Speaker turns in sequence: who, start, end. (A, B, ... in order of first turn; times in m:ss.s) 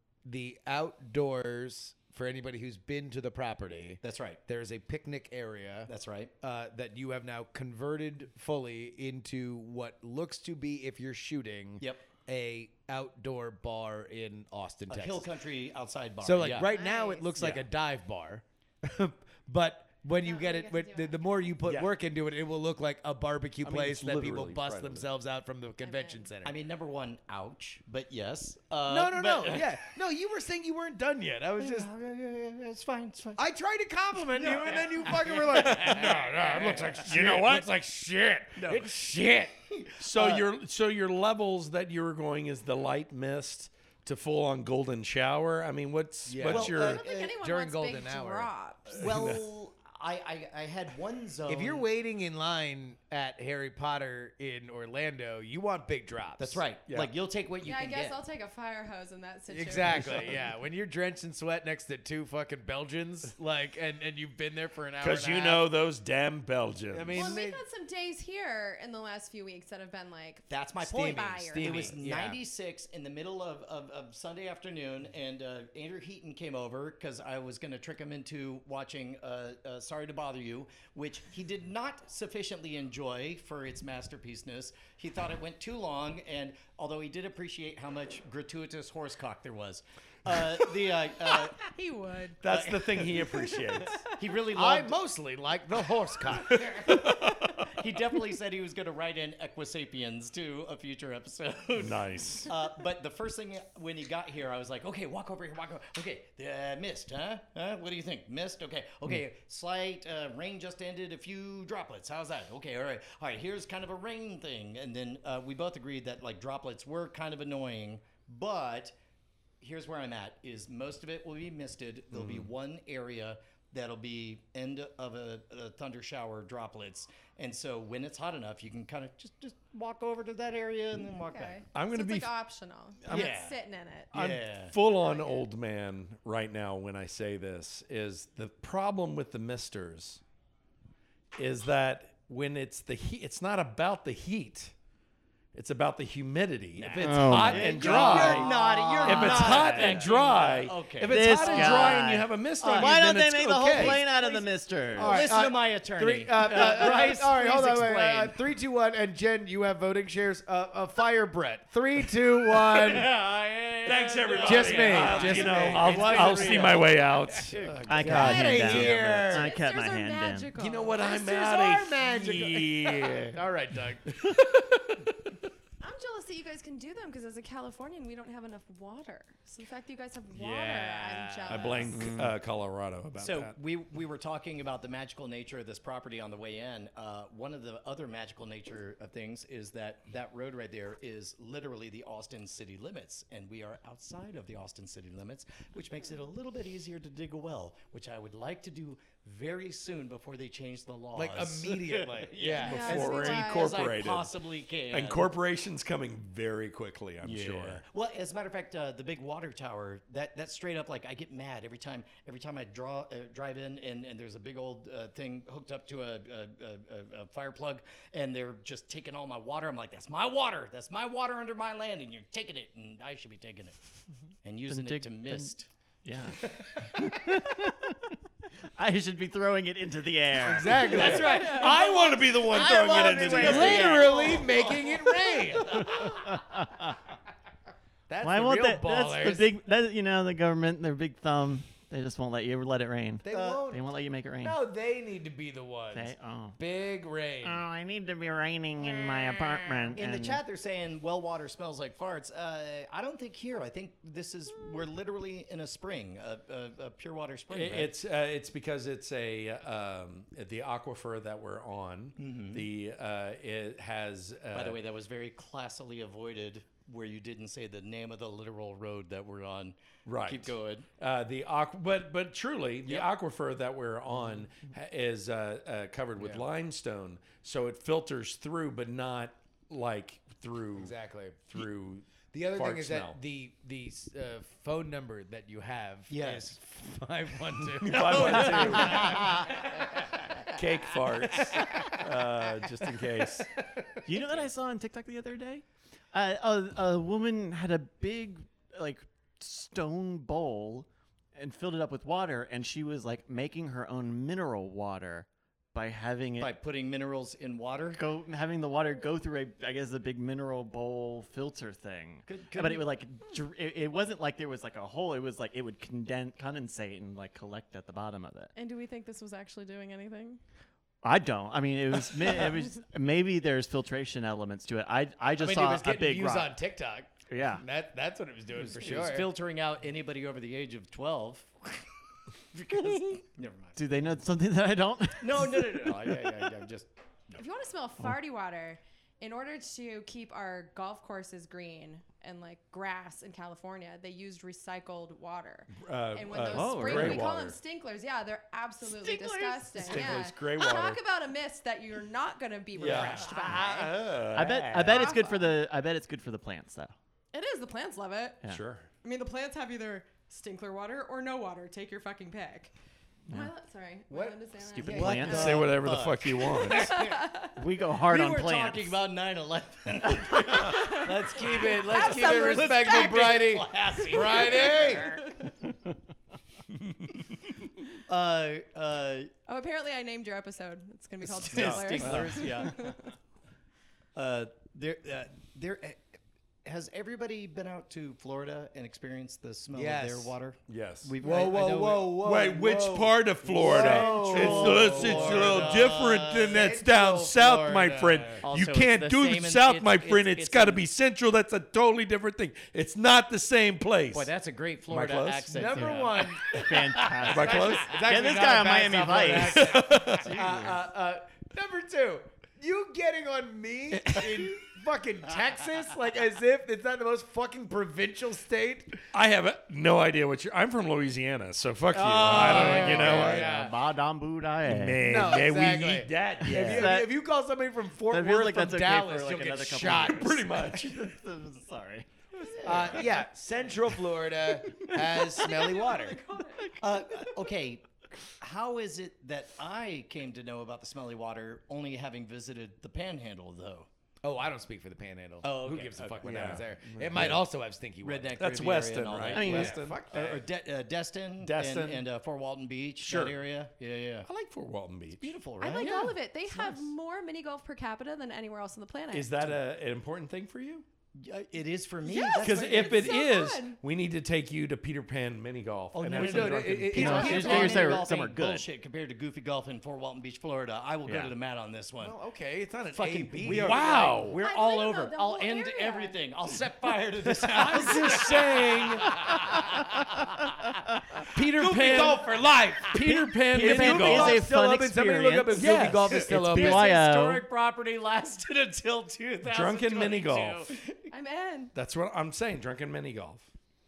0:00.2-0:05.9 A
0:04.0-0:04.4 B
0:05.9-0:06.3 B
0:06.4-0:15.3 A
0:11.8-0:12.1 B
0:14.9-0:16.7 B
0:16.2-0:26.6 A
0:16.7-0:17.3 C
0:20.2-0:21.5 C
0:21.6-0:21.9 D
0:23.6-0:25.1 D
0:25.8-0:26.3 C
0:26.4-0:29.7 B
0:28.9-0:31.9 A
0:31.6-0:33.4 B
0:33.4-0:39.5 A
0:34.1-0:36.9 B
0:36.8-0:37.7 D
0:38.7-0:39.0 B
0:39.7-0:40.0 B
0:40.0-0:47.0 D
0:40.1-0:40.4 A
0:46.3-0:48.5 A
0:46.4-0:47.4 B
0:46.8-0:49.0 C
0:48.9-0:51.9 B
0:48.9-0:49.4 D
0:51.5-0:56.6 A
0:56.4-0:58.2 B
0:56.9-0:57.1 D
0:57.6-1:00.5 C
0:59.5-1:05.7 A
1:00.0-1:00.4 B
1:05.0-1:07.4 D
1:06.9-1:07.6 A
1:07.2-1:12.0 C
1:10.5-1:31.6 B
1:11.0-1:12.4 A
1:31.3-1:32.4 C
1:32.4-1:34.0 D
1:32.4-1:33.5 B
1:34.0-1:35.0 B
1:34.5-1:36.6 A
1:36.4-1:59.0 B
1:36.7-1:37.7 D
1:41.8-1:42.5 D
1:59.6-2:11.6 B
2:02.1-2:02.5 D
2:11.3-2:14.1 C
2:11.7-2:12.3 D
2:13.0-2:13.4 D
2:13.1-2:13.6 B
2:14.1-2:20.2 D
2:14.1-2:14.8 B
2:15.0-2:15.4 C
2:21.4-2:24.7 D
2:25.5-2:34.0 D
2:26.8-2:32.1 B
2:27.0-2:29.9 E
2:27.7-2:28.5 A
2:29.5-2:29.9 A
2:31.1-2:35.2 E
2:32.6-2:33.0 B
2:33.7-2:38.4 B
2:35.0-2:43.1 A
2:42.6-2:43.0 D
2:42.8-2:47.8 B
2:43.9-2:49.0 D
2:44.4-2:49.5 A
2:47.9-2:50.5 E
2:48.5-2:51.3 C
2:50.6-2:53.4 D
2:51.1-2:54.2 A
2:54.1-2:55.0 D
2:55.8-3:02.0 C
3:00.3-3:02.0 A
3:01.5-3:03.6 D
3:02.0-3:02.4 E
3:03.2-3:25.3 B
3:21.1-3:23.2 A
3:22.6-3:23.8 C
3:22.7-3:24.3 D
3:24.9-3:27.8 D
3:27.2-3:43.8 B
3:44.4-3:45.7 B
3:44.7-3:45.5 E
3:46.0-3:46.4 E
3:46.9-3:48.2 E
3:48.8-3:51.2 E
3:50.4-3:56.2 A
3:50.9-3:56.1 B
3:50.9-3:54.0 D
3:50.9-3:51.9 C
3:52.5-3:52.9 C
3:53.0-3:54.3 E
3:53.5-3:54.1 C
3:55.9-3:57.0 E
3:58.1-3:59.5 A
3:58.2-4:04.6 E
4:03.2-4:03.8 A
4:04.4-4:07.6 A
4:05.9-4:06.6 E
4:07.4-4:10.4 E
4:09.9-4:17.9 B
4:17.5-4:24.8 D
4:22.2-4:22.7 B
4:24.5-4:30.9 B
4:30.0-4:41.0 D
4:36.2-4:36.4 A
4:40.8-4:41.5 A
4:41.5-4:43.2 D
4:42.3-4:49.8 A
4:46.1-4:46.6 B
4:47.8-4:49.3 D
4:47.9-4:49.3 B
4:48.9-4:49.3 E
4:50.5-4:53.5 D
4:51.5-4:52.1 A
4:54.0-5:06.5 E
5:06.4-5:08.0 B
5:07.9-5:18.5 E
5:12.3-5:12.9 B
5:18.6-5:20.4 C
5:21.0-5:26.6 E
5:25.4-5:29.3 A
5:27.3-5:27.6 E
5:28.5-5:31.9 B
5:32.5-5:33.8 B
5:33.8-5:36.4 E
5:35.2-5:37.4 B
5:37.4-5:54.0 C
5:45.7-5:47.6 D
5:46.5-5:47.3 E
5:49.2-5:49.7 E
5:49.7-5:51.0 D
5:52.8-5:55.1 D
5:54.3-5:57.0 E
5:54.7-5:55.6 C
5:57.3-5:58.4 C
5:58.5-5:58.9 D
5:59.0-6:02.7 C
6:03.3-6:05.6 C
6:04.1-6:05.7 A
6:04.8-6:05.6 E
6:05.0-6:07.3 B
6:05.2-6:07.0 D
6:06.7-6:07.5 C
6:07.6-6:09.0 E
6:08.0-6:15.3 B
6:10.5-6:13.5 C
6:10.8-6:15.2 A
6:14.1-6:15.4 C
6:18.1-6:19.3 B
6:19.5-6:23.0 C
6:21.3-6:23.0 B
6:21.5-6:22.6 D
6:24.2-6:32.2 B
6:29.7-6:30.3 A
6:30.7-6:31.2 D
6:31.2-6:38.4 A
6:32.1-6:44.3 D
6:33.5-6:40.8 B
6:44.1-6:46.2 B
6:44.9-6:45.7 D
6:45.5-6:59.0 A
6:45.7-6:50.9 E
6:46.5-6:48.0 D
6:49.4-6:50.4 D
6:53.9-6:54.4 D
6:59.1-7:03.5 D
7:02.0-7:03.7 A
7:02.0-7:03.5 B
7:02.2-7:05.5 E
7:04.7-7:06.9 D
7:05.0-7:10.7 A
7:06.4-7:07.2 E
7:08.1-7:12.1 E
7:09.8-7:11.1 D
7:12.6-7:13.2 E
7:12.6-7:16.2 A
7:15.4-7:16.7 C
7:16.8-7:17.9 B
7:18.4-7:23.9 B
7:24.2-7:28.4 A
7:25.4-7:26.6 B
7:26.0-7:27.4 D
7:28.0-7:34.3 B
7:28.4-7:30.4 D
7:29.3-7:29.8 E
7:29.4-7:30.4 A
7:31.4-7:32.1 D
7:33.0-7:33.4 D
7:34.3-7:35.3 D
7:35.2-7:36.1 B
7:35.6-7:39.3 C
7:39.1-7:40.8 D
7:41.2-7:43.2 B
7:42.0-7:43.8 C
7:42.4-7:47.6 D
7:45.9-7:52.2 B
7:46.0-7:48.0 A
7:46.9-7:48.7 E
7:52.0-7:54.0 A
7:52.9-8:00.2 B
7:53.4-7:54.4 D
7:54.4-7:56.2 C
7:57.3-7:59.2 A
7:57.6-7:59.2 D
8:01.3-8:04.4 D
8:01.4-8:06.9 A
8:01.6-8:02.2 B
8:03.5-8:07.5 E
8:05.5-8:06.2 D
8:06.3-8:11.1 B
8:09.4-8:10.7 D
8:11.1-8:11.7 C
8:11.7-8:13.5 D